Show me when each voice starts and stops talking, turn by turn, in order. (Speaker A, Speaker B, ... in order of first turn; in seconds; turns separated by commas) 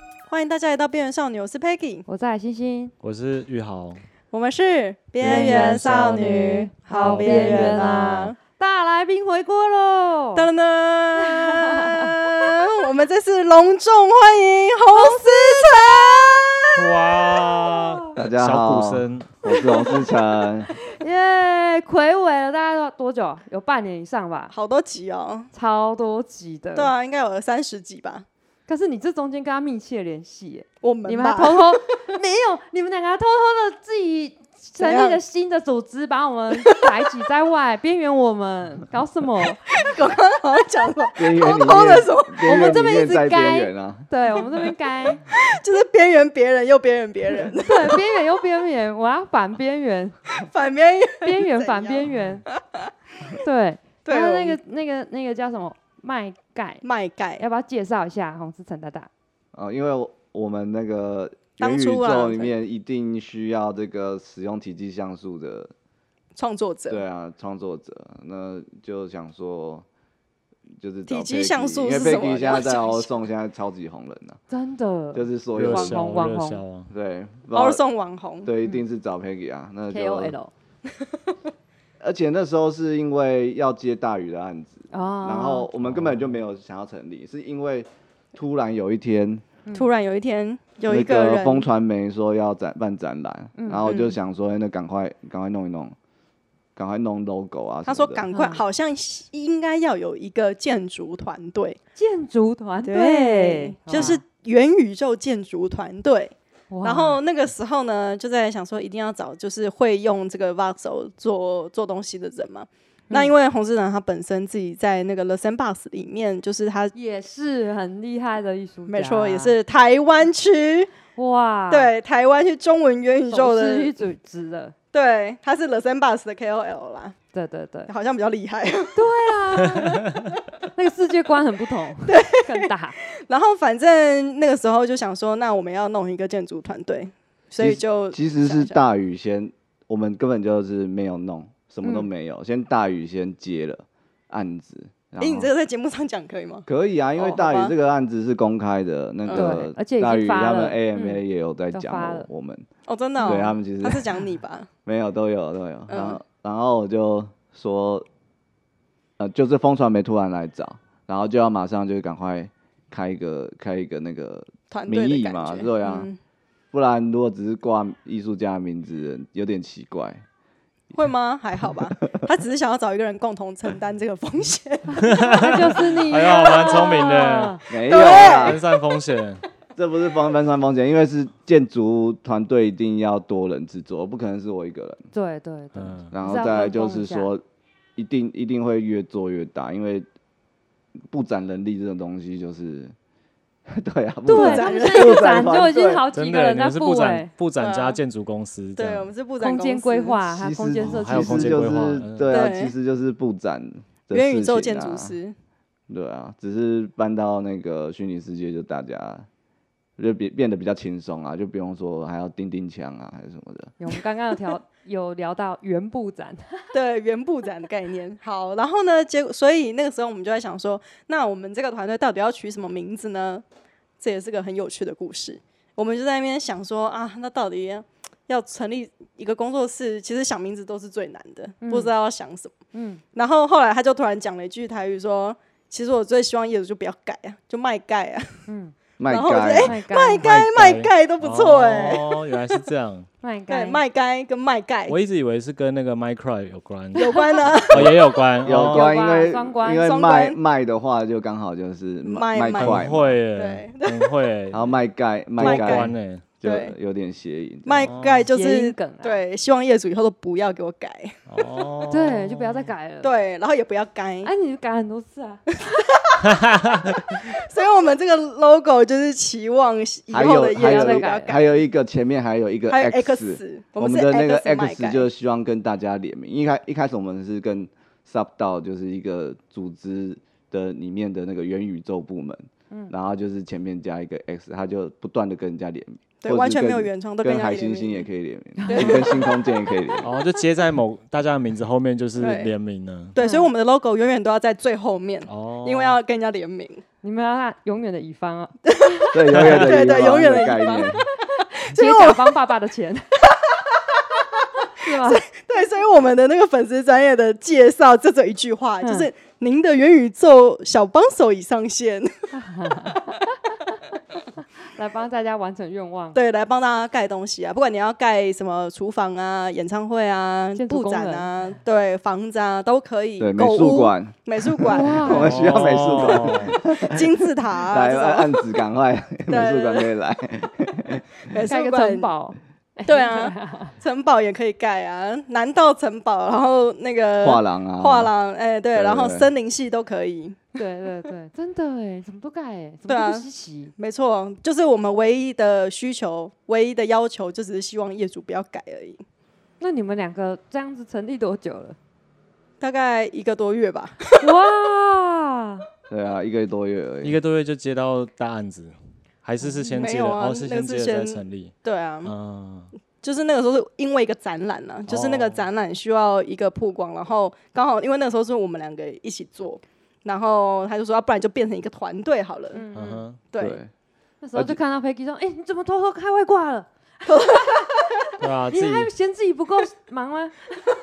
Speaker A: 0.3-2.0, Speaker B: 2.1-2.9, Speaker C: 3.0-4.0, Speaker A: 4.3-8.3, Speaker C: 5.2-6.3, Speaker B: 5.2-10.5, Speaker C: 6.9-8.0, Speaker A: 10.3-17.1, Speaker B: 11.2-12.2, Speaker B: 14.9-15.8, Speaker C: 16.8-19.4, Speaker B: 17.6-18.1, Speaker D: 18.2-20.7, Speaker B: 19.5-20.1, Speaker B: 20.7-24.5, Speaker A: 24.5-25.5, Speaker B: 25.5-26.9, Speaker A: 26.7-28.2, Speaker B: 28.7-39.6, Speaker A: 30.8-31.9, Speaker A: 34.8-35.2, Speaker A: 36.6-37.0, Speaker A: 39.6-42.7, Speaker D: 41.1-44.0, Speaker B: 42.4-45.2, Speaker A: 44.3-44.7, Speaker A: 45.3-48.0, Speaker B: 47.6-50.5, Speaker A: 50.4-52.1, Speaker B: 51.2-52.4, Speaker B: 53.3-56.8, Speaker A: 54.0-54.6, Speaker A: 56.8-57.4, Speaker B: 57.4-59.1, Speaker D: 59.5-65.7, Speaker A: 61.6-62.5, Speaker A: 66.3-67.0, Speaker D: 66.9-69.8, Speaker D: 70.8-74.4, Speaker A: 71.1-73.3, Speaker B: 74.5-76.6, Speaker D: 75.1-76.1, Speaker C: 75.5-76.9, Speaker D: 76.9-77.8, Speaker A: 77.5-78.5, Speaker D: 78.4-80.3, Speaker B: 79.9-80.5, Speaker A: 81.0-81.3, Speaker D: 82.0-89.4, Speaker B: 84.9-85.7, Speaker C: 85.8-86.2, Speaker A: 89.7-91.7, Speaker D: 90.9-95.9, Speaker B: 93.6-93.9, Speaker A: 93.8-94.2, Speaker D: 96.8-98.2, Speaker A: 97.8-101.8, Speaker B: 98.3-98.6, Speaker B: 102.0-104.2, Speaker A: 102.8-116.9, Speaker B: 106.7-107.2, Speaker B: 116.9-119.5, Speaker A: 118.9-120.9, Speaker B: 121.1-121.9, Speaker A: 121.7-123.9, Speaker B: 123.3-124.7, Speaker A: 124.9-127.2, Speaker B: 127.3-127.9, Speaker A: 127.9-129.1, Speaker B: 128.9-130.2, Speaker B: 130.7-133.0, Speaker A: 132.0-132.7, Speaker A: 133.2-138.8, Speaker D: 137.6-145.5, Speaker B: 141.8-142.1, Speaker A: 145.2-147.7, Speaker D: 146.7-152.7, Speaker A: 149.3-149.6, Speaker B: 149.3-151.2, Speaker B: 151.7-152.3, Speaker A: 152.9-154.7, Speaker B: 153.2-153.6, Speaker D: 153.2-154.0, Speaker D: 154.8-158.1, Speaker A: 155.9-156.2, Speaker D: 159.2-166.1, Speaker A: 164.7-166.2, Speaker D: 166.7-170.2, Speaker A: 170.9-175.7, Speaker B: 175.0-177.6, Speaker C: 175.1-179.4, Speaker D: 177.7-178.6, Speaker A: 177.8-178.8, Speaker D: 179.8-185.1, Speaker B: 185.1-187.3, Speaker C: 185.8-186.1, Speaker D: 186.1-187.4, Speaker D: 188.0-190.1, Speaker D: 191.1-192.9, Speaker D: 193.7-196.1, Speaker B: 194.3-197.3, Speaker A: 194.3-195.2, Speaker C: 196.1-199.1, Speaker A: 197.6-198.0, Speaker A: 198.8-200.2, Speaker B: 199.4-201.6, Speaker D: 200.3-205.1, Speaker C: 200.8-202.5, Speaker A: 202.3-202.7, Speaker A: 204.1-205.3, Speaker D: 205.9-209.3, Speaker D: 210.0-213.7, Speaker B: 213.8-216.7, Speaker A: 216.7-223.4, Speaker A: 224.0-232.5, Speaker B: 231.6-231.9, Speaker B: 232.7-233.0, Speaker A: 233.1-238.4, Speaker B: 238.5-238.7, Speaker D: 239.0-239.7, Speaker A: 239.1-242.2, Speaker B: 239.5-240.2, Speaker C: 240.2-243.1, Speaker B: 243.2-243.8, Speaker A: 243.5-245.0, Speaker C: 244.9-248.9, Speaker B: 246.9-247.6, Speaker A: 246.9-248.0, Speaker D: 247.7-253.2, Speaker B: 248.7-249.9, Speaker A: 249.7-250.4, Speaker A: 252.0-254.1, Speaker C: 252.5-254.7, Speaker D: 254.5-257.9, Speaker C: 255.4-256.3, Speaker A: 255.4-256.7, Speaker A: 257.6-261.1, Speaker C: 257.8-258.3, Speaker B: 258.3-259.2, Speaker C: 261.3-262.7, Speaker B: 261.9-263.1, Speaker A: 263.0-264.3, Speaker B: 264.2-265.6, Speaker A: 265.7-266.3, Speaker C: 266.2-267.0, Speaker A: 267.1-271.5, Speaker D: 270.1-290.1, Speaker B: 270.2-271.4, Speaker A: 272.7-275.1, Speaker A: 286.2-288.1, Speaker B: 288.6-289.4, Speaker A: 288.7-289.3, Speaker C: 290.0-293.1, Speaker A: 292.2-292.5, Speaker A: 293.1-296.8, Speaker B: 293.2-293.5, Speaker C: 295.2-296.0, Speaker B: 297.0-299.1, Speaker A: 298.7-301.0, Speaker D: 299.1-301.0, Speaker C: 299.3-299.7, Speaker A: 301.5-302.2, Speaker B: 301.7-303.1, Speaker A: 303.5-312.1, Speaker B: 304.8-305.2, Speaker B: 308.8-309.1, Speaker B: 312.3-313.2, Speaker A: 312.7-313.0, Speaker B: 314.4-316.2, Speaker A: 316.1-325.2, Speaker B: 320.6-321.3, Speaker D: 323.2-331.0, Speaker B: 324.7-325.4, Speaker C: 325.1-326.6, Speaker A: 326.0-328.5, Speaker A: 329.3-329.9, Speaker A: 331.3-332.1, Speaker B: 331.4-333.8, Speaker A: 332.9-340.5, Speaker D: 337.2-338.1, Speaker D: 338.7-339.3, Speaker B: 340.5-343.7, Speaker A: 342.9-343.2, Speaker A: 343.8-349.0, Speaker B: 349.6-351.8, Speaker A: 352.6-354.3, Speaker B: 354.2-355.6, Speaker D: 355.9-357.2, Speaker C: 357.0-362.7, Speaker B: 359.4-360.0, Speaker A: 359.8-362.1, Speaker A: 363.0-372.6, Speaker C: 364.9-365.5, Speaker B: 372.5-373.0, Speaker C: 372.7-373.2, Speaker A: 373.3-373.6, Speaker D: 373.4-373.7, Speaker B: 374.2-377.7, Speaker A: 377.1-377.7, Speaker C: 378.2-378.9, Speaker B: 378.5-380.4